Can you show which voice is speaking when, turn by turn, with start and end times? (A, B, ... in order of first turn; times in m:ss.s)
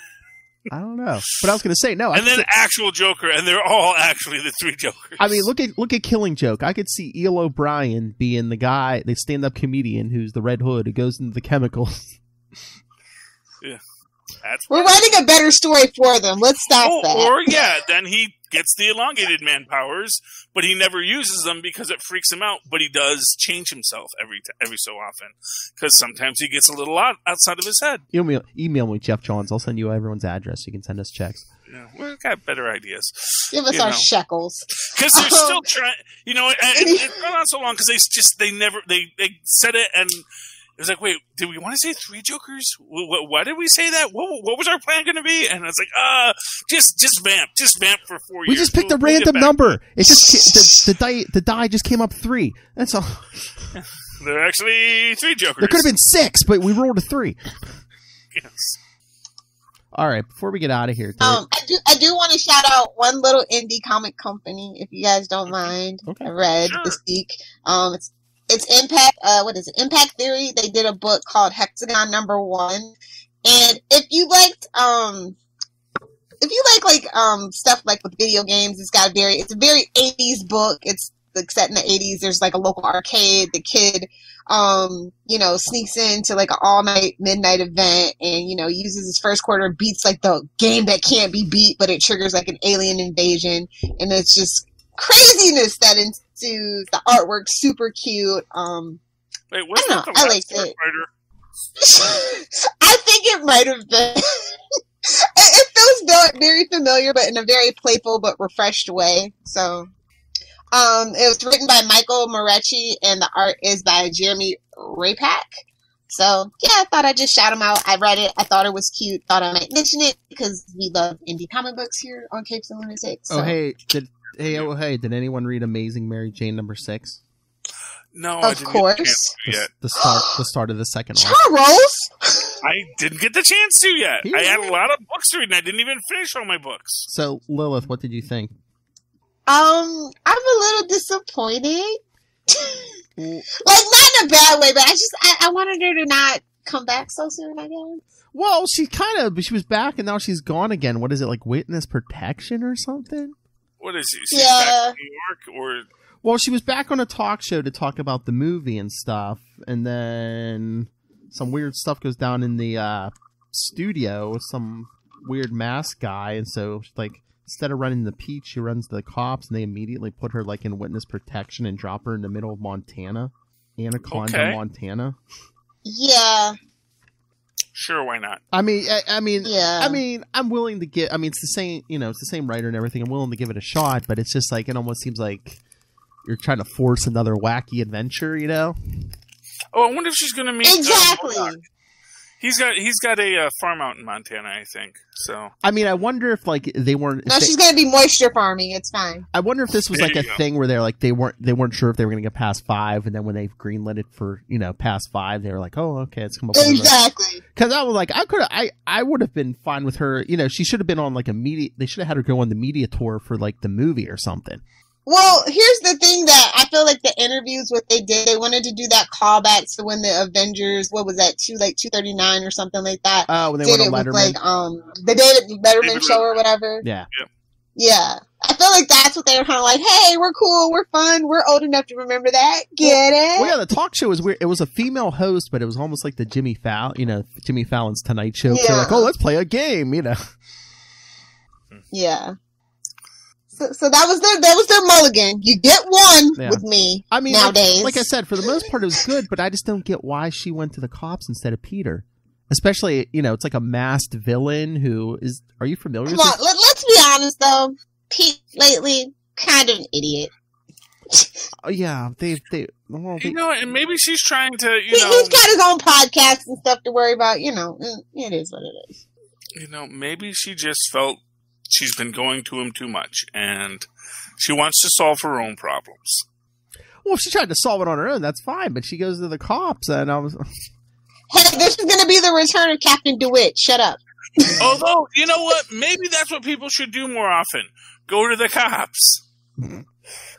0:00.7-0:02.5 A
0:02.1-0:05.5 B
0:05.2-0:12.1 A
0:14.4-0:15.2 B
0:14.7-0:17.3 C
0:16.8-0:28.0 B
0:28.1-0:31.4 A
0:31.7-0:34.0 B
0:33.5-0:35.6 C
0:34.8-0:40.2 B
0:36.7-0:37.1 C
0:40.8-0:49.8 B
0:48.5-0:53.5 A
0:53.7-0:55.9 B
0:55.6-0:57.4 A
0:58.3-0:58.8 B
0:59.9-1:01.4 A
1:01.2-1:15.4 C
1:06.0-1:06.3 A
1:06.6-1:07.0 B
1:16.4-1:39.0 C
1:39.5-1:41.1 B
1:39.8-1:40.7 C
1:41.8-1:44.6 C
1:45.1-1:49.9 C
1:50.7-1:55.5 C
1:56.1-2:03.5 C
2:03.3-2:07.2 A
2:08.1-2:09.7 B
2:08.4-2:09.3 C
2:09.4-2:11.4 A
2:11.2-2:12.6 C
2:12.6-2:17.1 B
2:14.2-2:14.8 A
2:17.1-2:18.5 A
2:19.5-2:23.0 C
2:23.2-2:23.4 A
2:23.6-2:28.0 C
2:28.3-2:33.3 A
2:33.8-2:35.9 B
2:34.3-2:34.9 C
2:36.2-2:55.2 A
2:54.1-2:54.6 B
2:55.8-2:56.6 C
2:57.7-2:58.4 B
2:58.5-3:05.6 A
2:59.4-3:00.0 C
3:06.2-3:08.8 A
3:09.7-3:11.5 B
3:10.6-3:11.6 C
3:12.4-3:15.5 B
3:15.6-3:17.5 A
3:17.3-3:19.2 C
3:19.3-3:27.0 A
3:19.9-3:20.4 B
3:26.5-3:27.4 C
3:27.5-3:34.6 A
3:35.0-3:46.8 C
3:43.3-3:44.4 A
3:45.8-3:46.4 B
3:46.8-3:47.1 A
3:47.8-3:53.5 C
3:52.8-4:00.2 A
3:58.5-3:59.1 C
4:01.9-4:02.3 C
4:03.6-4:08.1 C
4:06.4-4:16.4 A
4:16.0-4:20.3 C
4:21.6-4:23.4 A
4:23.2-4:25.4 B
4:24.9-4:29.0 C
4:29.6-4:33.8 B
4:34.4-4:36.2 B
4:37.0-4:40.5 A
4:41.3-4:44.6 C
4:44.6-4:49.2 B